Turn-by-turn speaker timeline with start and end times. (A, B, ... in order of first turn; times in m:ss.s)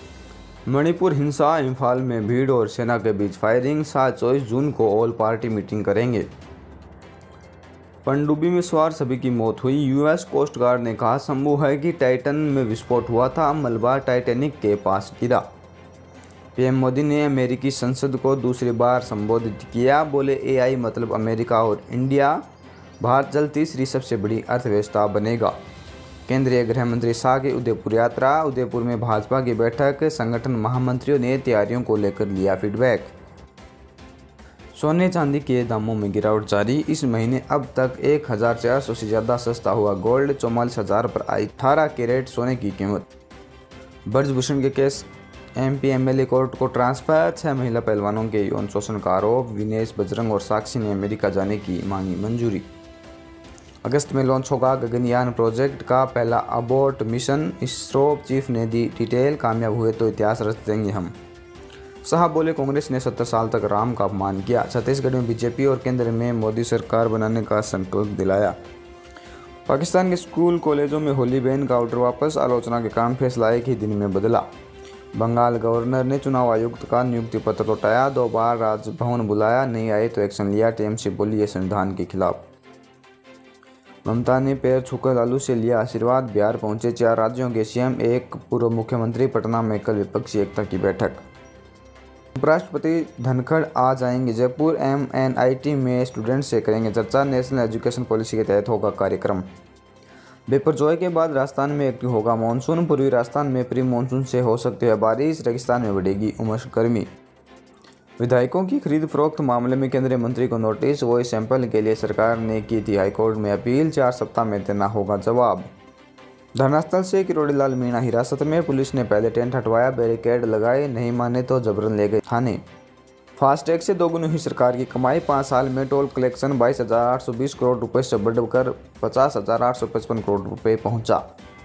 0:00.7-0:06.3 A
0:08.0-0:15.4 A
0:16.6-0:22.4 A
0:23.0-0:25.6 A
0:26.3-0:33.1 A
0:34.7-0:43.1 A
0:44.1-0:52.7 A
0:53.8-1:01.1 A
1:02.0-1:08.6 A
1:09.7-1:14.5 A
1:15.1-1:22.5 A
1:24.0-1:31.2 A
1:32.3-1:39.4 A
1:40.5-1:47.1 A
1:48.2-1:55.7 A
1:56.5-2:02.6 A
2:03.4-2:11.2 A